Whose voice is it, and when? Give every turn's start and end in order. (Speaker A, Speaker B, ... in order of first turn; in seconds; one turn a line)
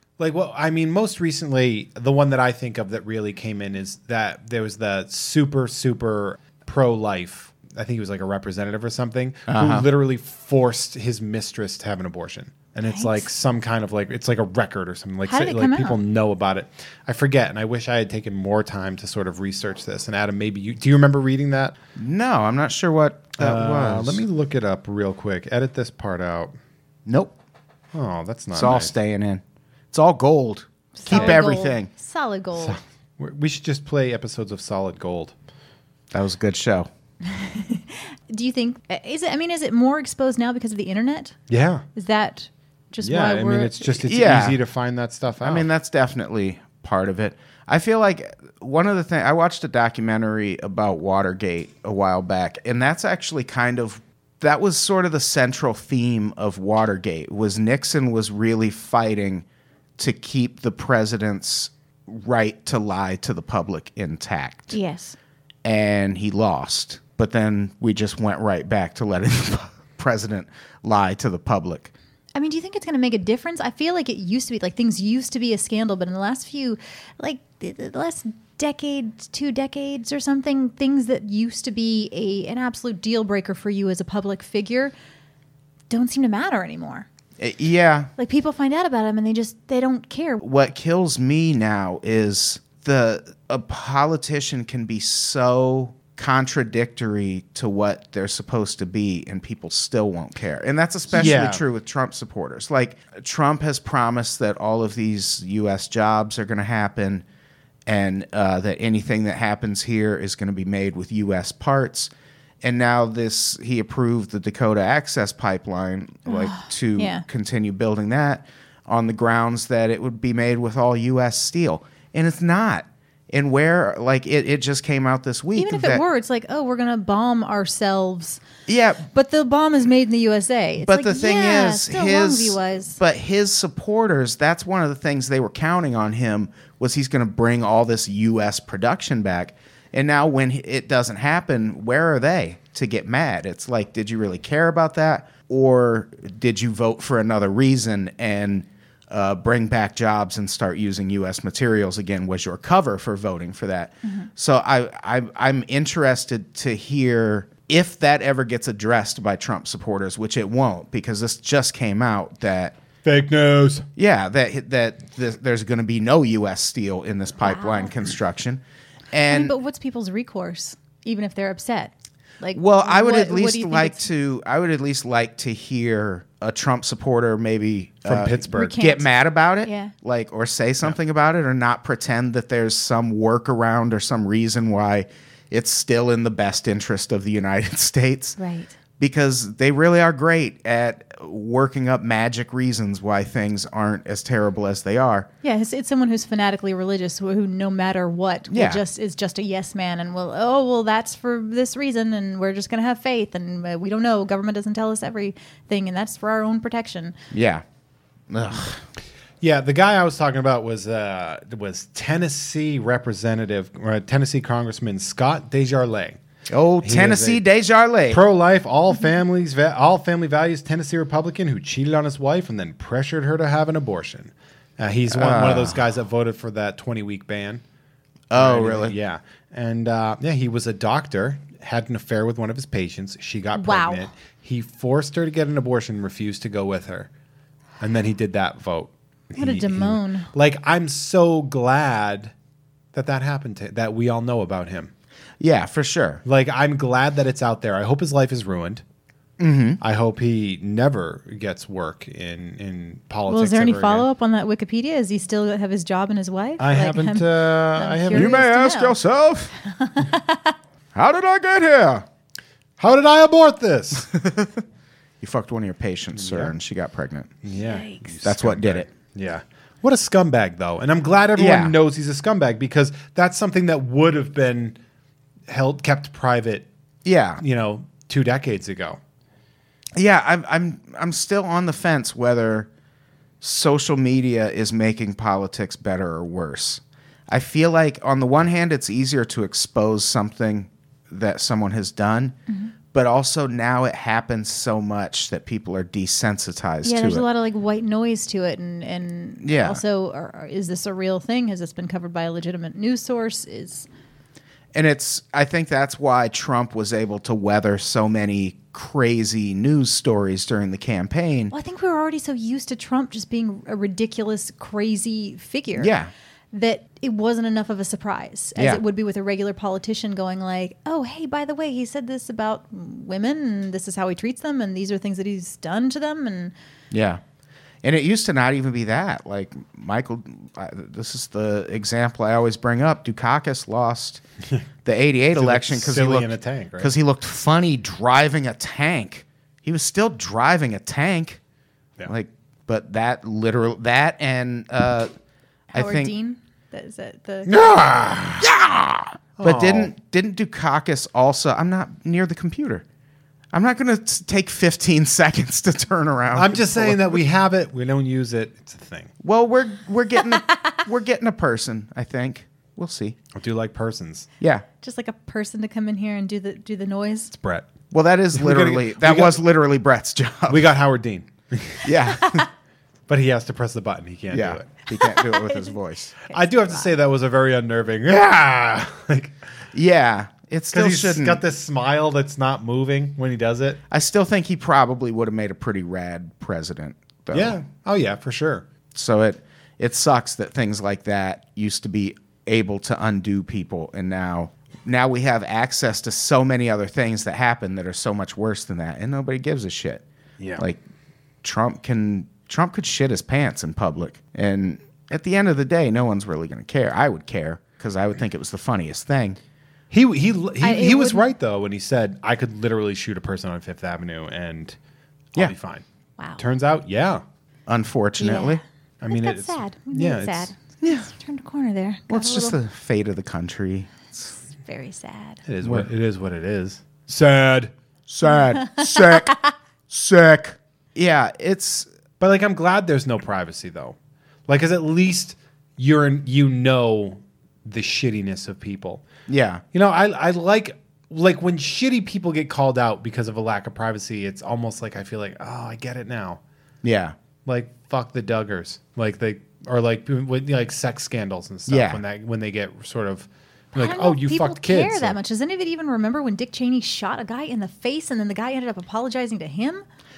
Speaker A: 0.2-21.8
Speaker B: 9.5-9.8
Speaker C: 12.8-13.2
Speaker C: 15.2-16.0
Speaker B: 21.9-24.2
Speaker A: 23.4-26.5
Speaker B: 27.1-27.3
Speaker A: 27.9-28.9
Speaker B: 28.5-31.9
Speaker C: 30.9-32.8
Speaker A: 31.1-31.4
Speaker A: 32.5-35.3
Speaker B: 36.1-36.9
Speaker C: 37.2-41.4
Speaker A: 41.5-41.8
Speaker C: 41.9-44.0
Speaker A: 43.0-45.7
Speaker B: 44.0-44.6
Speaker B: 45.4-59.4
Speaker B: 60.0-64.8
Speaker C: 64.7-65.2
Speaker B: 65.6-71.9
Speaker C: 72.3-84.9
Speaker C: 85.9-87.1
Speaker B: 87.4-88.1
Speaker C: 88.2-90.4
Speaker B: 90.4-107.2
Speaker A: 101.1-101.6
Speaker B: 107.8-112.1
Speaker B: 112.6-126.0
Speaker C: 116.2-117.2
Speaker C: 125.5-128.4
Speaker B: 128.7-129.1
Speaker C: 129.1-133.0
Speaker B: 130.8-162.8
Speaker A: 163.0-163.8
Speaker B: 163.9-169.5
Speaker C: 167.4-167.9
Speaker C: 169.3-174.1
Speaker B: 172.5-188.4
Speaker A: 178.0-178.8
Speaker C: 178.5-179.1
Speaker C: 179.6-179.9
Speaker C: 188.4-188.7
Speaker B: 189.0-195.3
Speaker C: 195.4-207.2
Speaker B: 198.5-198.8
Speaker B: 207.3-207.6
Speaker B: 208.3-208.8
Speaker A: 209.4-216.2
Speaker B: 216.5-218.2
Speaker A: 216.8-217.4
Speaker A: 218.1-227.6
Speaker B: 225.1-225.8
Speaker B: 228.3-228.9
Speaker A: 228.3-237.1
Speaker C: 233.6-234.1
Speaker A: 237.8-242.3
Speaker C: 239.3-240.3
Speaker A: 242.9-244.9
Speaker B: 245.4-246.2
Speaker A: 246.2-248.8
Speaker B: 249.4-249.8
Speaker A: 249.8-254.1
Speaker C: 253.3-259.0
Speaker A: 256.6-258.3
Speaker B: 258.1-259.5
Speaker C: 259.6-260.5
Speaker B: 260.9-262.1
Speaker A: 262.8-264.1
Speaker B: 264.0-264.6
Speaker B: 265.2-267.3
Speaker A: 266.1-266.5
Speaker A: 267.4-274.8
Speaker C: 267.6-268.1
Speaker B: 268.2-268.9
Speaker B: 271.4-271.7
Speaker A: 275.5-276.7
Speaker B: 277.0-277.4
Speaker A: 277.4-279.0
Speaker B: 279.9-282.7
Speaker B: 283.4-292.3
Speaker B: 292.9-297.2
Speaker C: 296.8-303.9
Speaker B: 299.4-299.8
Speaker B: 304.7-311.5
Speaker C: 311.5-315.9
Speaker B: 315.7-316.1
Speaker C: 316.5-326.5
Speaker B: 318.6-318.8
Speaker B: 326.9-327.2
Speaker B: 327.8-334.2
Speaker B: 334.8-341.4
Speaker A: 335.3-336.9
Speaker B: 342.1-345.1
Speaker C: 345.7-347.5
Speaker B: 345.7-346.1
Speaker A: 347.5-348.5
Speaker B: 348.4-352.8
Speaker A: 349.4-349.9
Speaker B: 353.5-357.2
Speaker A: 356.3-359.1
Speaker B: 359.2-363.2
Speaker A: 363.3-364.3
Speaker B: 364.4-364.6
Speaker C: 364.8-367.3
Speaker A: 367.4-367.7
Speaker B: 367.9-370.7
Speaker A: 368.3-369.4
Speaker A: 370.5-372.0
Speaker B: 371.8-372.4
Speaker C: 372.2-372.5
Speaker A: 373.1-374.7
Speaker B: 374.3-376.1
Speaker C: 374.9-376.9
Speaker A: 376.3-379.3
Speaker B: 379.7-381.4
Speaker A: 380.7-383.8
Speaker B: 383.9-387.6
Speaker A: 387.3-388.6
Speaker B: 388.9-400.0
Speaker A: 400.4-400.6
Speaker B: 401.4-409.4
Speaker A: 409.9-414.8
Speaker C: 410.6-411.2
Speaker A: 415.3-415.8
Speaker A: 416.4-417.2
Speaker B: 417.7-418.6
Speaker C: 418.2-422.6
Speaker A: 419.0-420.5
Speaker B: 420.8-421.1
Speaker B: 422.1-424.3
Speaker C: 424.5-425.4
Speaker A: 425.5-427.7
Speaker B: 425.6-425.9
Speaker B: 428.1-429.3
Speaker C: 428.3-429.5
Speaker B: 429.9-431.9
Speaker A: 432.2-433.9
Speaker A: 434.5-439.0
Speaker B: 439.3-439.6
Speaker A: 439.7-446.4
Speaker B: 446.8-447.1
Speaker A: 447.4-455.2
Speaker B: 451.7-452.0
Speaker C: 453.7-459.8